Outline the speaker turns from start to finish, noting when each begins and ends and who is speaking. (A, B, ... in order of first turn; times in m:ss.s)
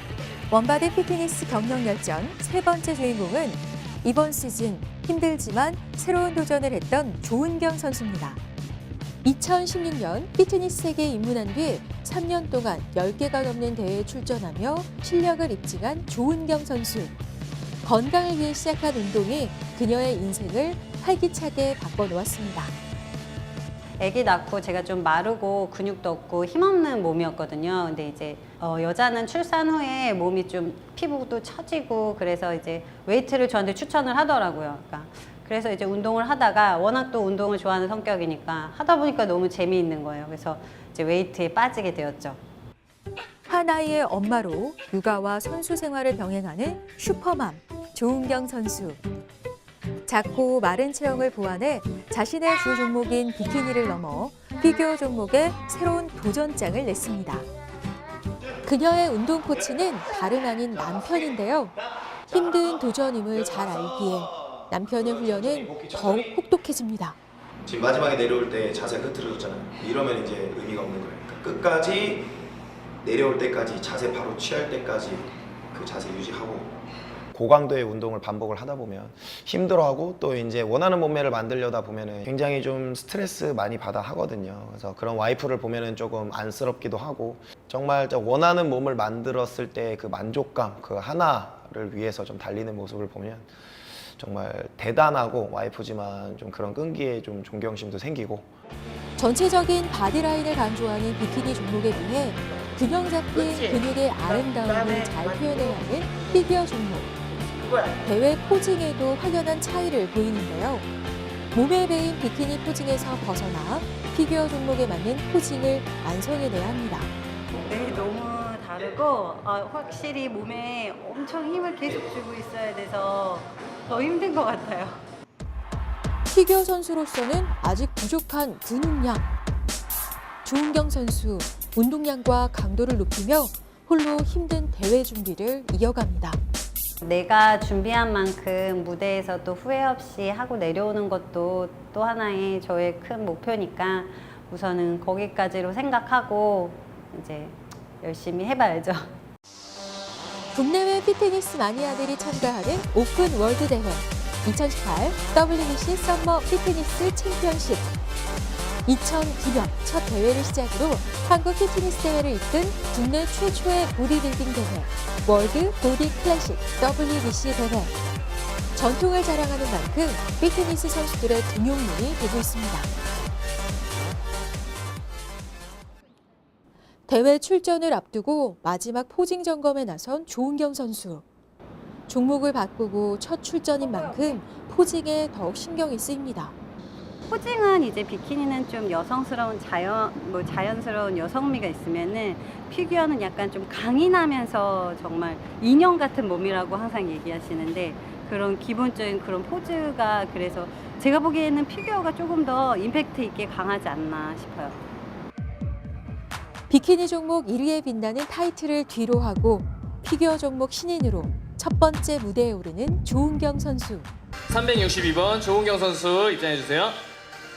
0:00.5-0:08.4 A
0:09.2-0:17.1 A
0:17.8-0:22.7 A
0:24.0-0:42.4 B
0:43.5-0:49.0 A
0:50.0-0:57.5 A
0:58.6-1:01.7 A
1:02.3-1:07.2 A
1:07.6-1:12.3 C
1:13.0-1:16.7 C
1:17.3-1:33.5 C
1:34.2-1:38.5 C
1:39.2-1:47.1 A
1:48.0-1:50.9 A
1:51.5-1:57.1 A
1:57.7-2:05.0 B
2:06.3-2:09.3 A
2:10.4-2:16.4 A
2:17.0-2:29.1 B
2:30.5-2:37.9 A
2:38.8-2:47.9 A
2:48.7-2:52.9 A
2:57.1-3:01.2 A
3:02.1-3:06.5 A
3:07.3-3:24.8 B
3:26.7-3:34.1 A
3:34.5-3:37.0 D